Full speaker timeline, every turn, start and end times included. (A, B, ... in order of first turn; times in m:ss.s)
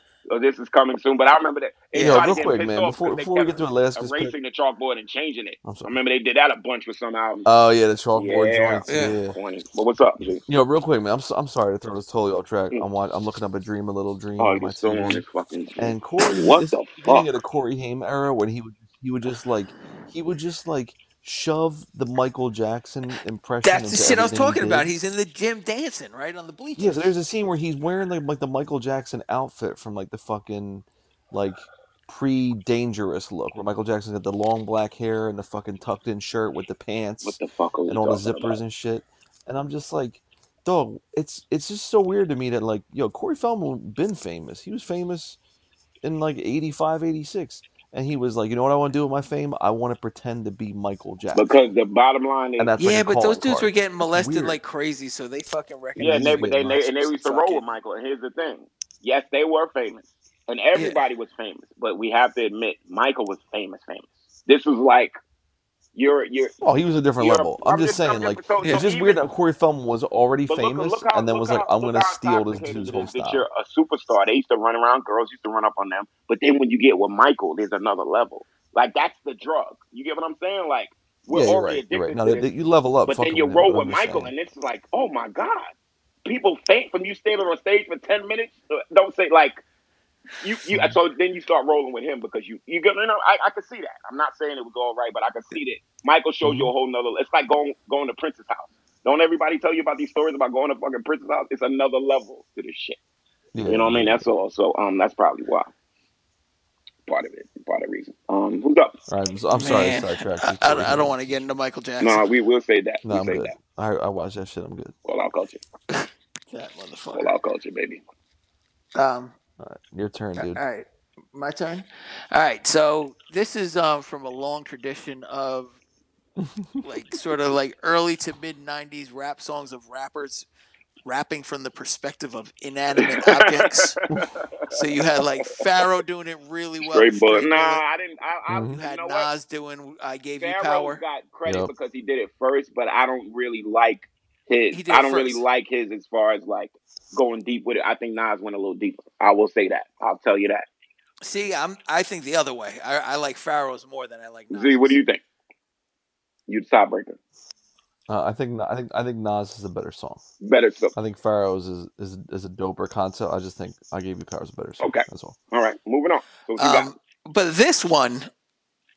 0:00.3-0:07.5 A
0:01.9-0:02.2 B
0:02.0-0:04.3 C
0:05.6-0:05.9 C
0:07.4-0:09.4 C
0:08.1-0:10.4 A
0:08.9-0:09.2 B
0:10.4-0:15.2 C
0:14.4-0:17.3 A
0:15.8-0:24.9 C
0:23.6-0:27.1 B
0:26.8-0:45.4 C
0:37.2-0:38.6 A
0:46.0-0:51.5 C
0:51.3-0:52.7 A
0:52.6-0:54.6 C
0:52.8-0:57.7 B
0:56.0-0:56.8 C
0:56.0-1:05.1 A
1:00.7-1:01.0 B
1:05.9-1:06.6 A
1:06.6-1:13.4 C
1:07.2-1:09.2 A
1:10.5-1:22.5 A
1:21.3-1:24.3 C
1:23.0-1:25.7 A
1:26.2-1:29.6 A
1:30.4-1:43.0 A
1:30.7-1:31.0 C
1:36.4-1:36.7 C
1:43.5-1:44.2 C
1:43.7-1:45.7 A
1:47.1-1:49.0 A
1:49.1-1:51.2 C
1:49.5-1:52.3 B
1:52.0-1:53.5 A
1:53.0-1:54.9 C
1:55.0-1:55.6 A
1:55.9-1:57.3 B
1:57.1-1:58.0 A
1:58.9-1:59.3 B
1:59.6-2:00.6 C
2:00.4-2:05.8 B
2:06.4-2:06.8 C
2:06.8-2:10.5 B
2:11.0-2:14.0 B
2:13.0-2:14.7 A
2:14.7-2:17.8 B
2:16.8-2:19.3 A
2:18.5-2:18.8 C
2:18.7-2:21.0 B
2:20.4-2:30.6 A
2:21.4-2:21.7 C
2:24.7-2:25.4 B
2:31.2-2:35.0 B
2:34.5-2:35.2 A
2:36.5-2:37.2 A
2:38.1-2:40.2 C
2:40.4-2:40.9 A
2:40.9-2:45.4 C
2:44.8-2:46.9 A
2:46.6-2:48.3 B